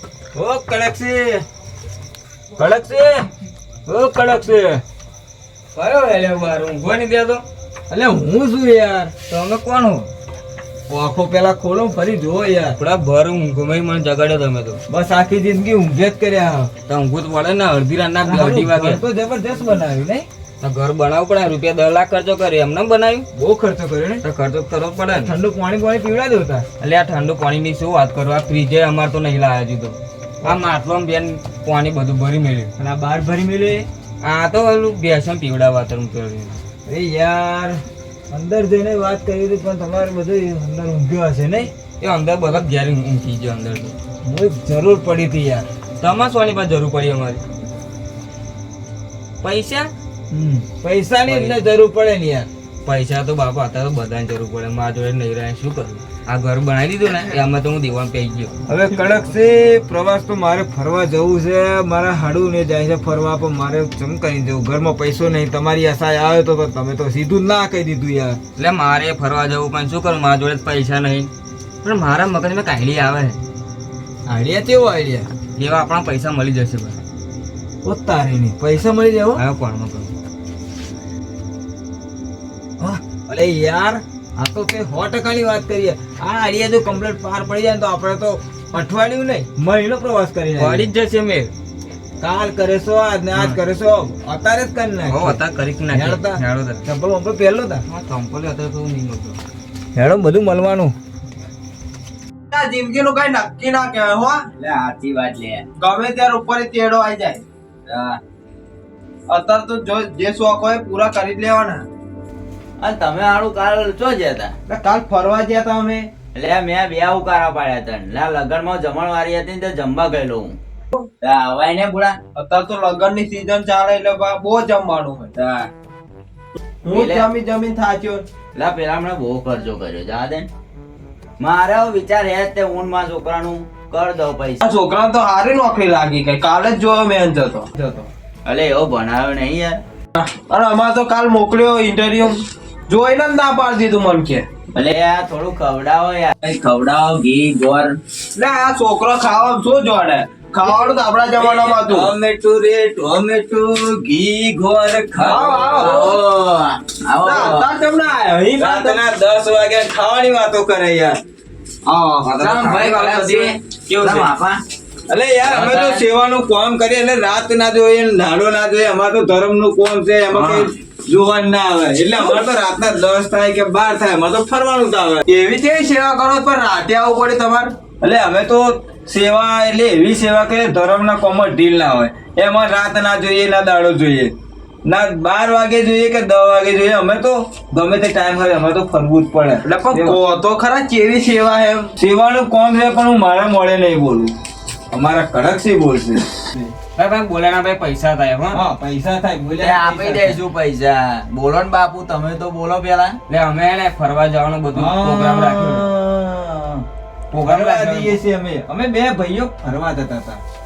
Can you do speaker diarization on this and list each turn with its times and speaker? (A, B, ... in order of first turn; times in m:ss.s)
0:00.4-0:01.4 A
0:02.6-0:03.2 A
0:03.8-0:04.8 A
0:05.7-0:07.4 B
0:07.9-0:09.1 A
0:09.3-0:10.1 B
0:10.9-0:12.8 A
0:12.8-0:14.8 B
0:14.9-0:16.7 A
0:16.9-0:19.0 B
0:18.2-0:20.3 A
0:20.6-0:23.2 B
0:23.3-0:24.2 A
0:24.2-0:25.3 B
0:25.2-0:26.6 A
0:26.8-0:32.7 B
0:32.8-0:33.9 A
0:34.2-0:36.6 B
0:36.8-0:41.7 A
0:42.0-0:43.9 B
0:44.2-0:45.7 A
0:46.0-0:47.4 B
0:49.4-0:49.9 B
0:50.3-0:52.5 A
0:51.2-0:51.6 B
0:52.8-0:58.6 B
0:58.7-1:08.4 A
1:08.6-1:11.3 B
1:11.8-1:13.4 B
1:14.2-1:15.3 A
1:15.6-1:17.0 B
1:17.8-1:19.4 A
1:19.4-1:20.1 B
1:22.8-1:30.9 A
1:30.6-1:31.5 B
1:32.2-1:35.4 A
1:35.1-1:36.8 B
1:35.9-1:37.8 A
1:37.9-1:39.4 B
1:39.9-1:40.9 A
1:42.5-1:44.4 C
1:44.6-1:45.6 D
1:45.8-1:47.4 C
1:47.9-1:48.2 D
1:49.3-1:51.8 C
1:52.8-1:54.5 D
1:54.7-1:56.1 C
1:56.3-2:00.6 D
2:01.2-2:02.2 D
2:02.3-2:05.3 C
2:06.8-2:08.2 C
2:06.9-2:07.3 D
2:08.5-2:10.5 D
2:11.4-2:14.6 D
2:14.6-2:18.1 C
2:18.4-2:19.8 D
2:20.1-2:24.4 C
2:24.8-2:28.0 D
2:28.3-2:32.1 C
2:31.3-2:36.1 A
2:35.2-2:36.2 C
2:35.7-2:37.7 D
2:37.2-2:39.0 C
2:38.6-2:41.2 A
2:41.9-2:42.6 C
2:42.2-2:44.3 B
2:42.4-2:44.6 D
2:45.1-2:55.2 A
2:45.4-2:46.0 D
2:50.3-2:50.7 B
2:55.3-2:57.7 C
2:58.0-3:04.3 A
3:04.8-3:10.2 A
3:09.6-3:11.9 C
3:12.0-3:14.3 A
3:14.9-3:16.7 A
3:17.0-3:18.6 B
3:18.5-3:20.4 A
3:19.6-3:23.2 D
3:23.3-3:25.8 B
3:24.7-3:26.8 A
3:27.3-3:28.2 B
3:27.4-3:30.4 A